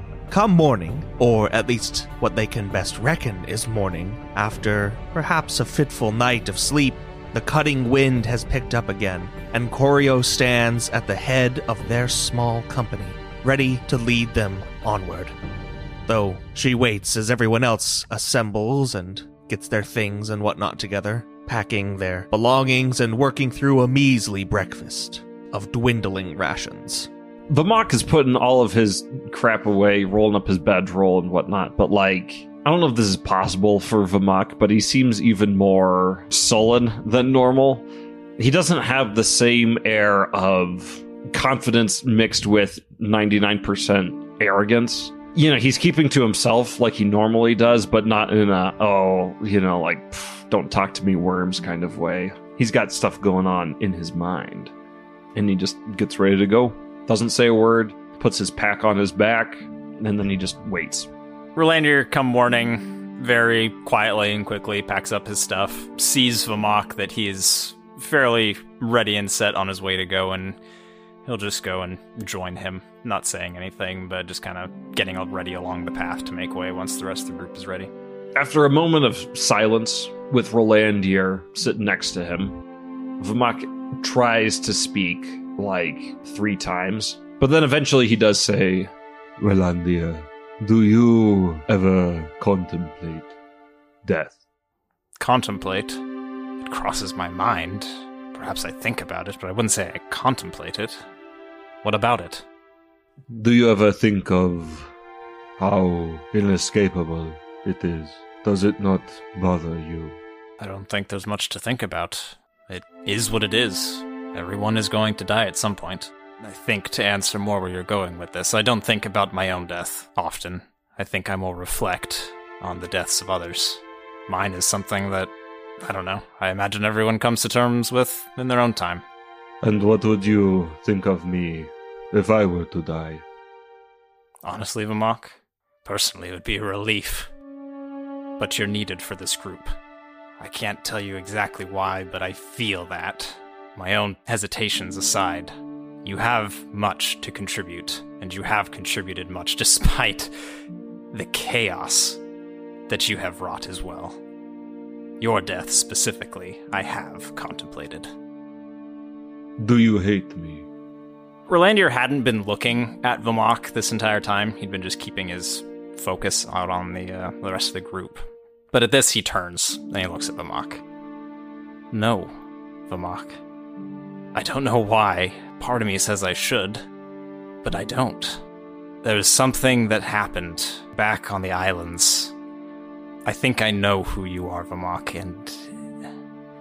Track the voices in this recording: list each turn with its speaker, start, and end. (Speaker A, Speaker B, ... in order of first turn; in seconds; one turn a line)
Speaker A: 0.3-15.3
Speaker A: 16.1-27.1
Speaker B: 27.5-37.9
Speaker B: 38.4-54.7
Speaker B: 55.3-61.1
Speaker C: 61.5-70.6
Speaker C: 71.2-77.9
Speaker B: 78.3-82.6
Speaker B: 83.2-88.9
Speaker D: 89.4-93.3
Speaker D: 94.0-94.4
Speaker C: 95.2-96.0
Speaker C: 96.6-101.0
Speaker C: 101.8-102.4
Speaker D: 103.3-104.9
Speaker D: 105.6-110.2
Speaker C: 110.6-129.0
Speaker D: 129.6-133.2
Speaker C: 134.4-137.3
Speaker C: 138.4-139.7
Speaker C: 140.4-145.5
Speaker C: 146.0-150.3
Speaker C: 151.1-152.2
Speaker C: 152.9-154.2
Speaker C: 155.2-158.1
Speaker D: 159.6-160.7
Speaker C: 161.5-170.8
Speaker C: 171.9-172.3
Speaker C: 172.9-173.4
Speaker C: 174.3-176.8
Speaker C: 177.6-178.4
Speaker C: 179.0-182.3
Speaker C: 183.2-185.8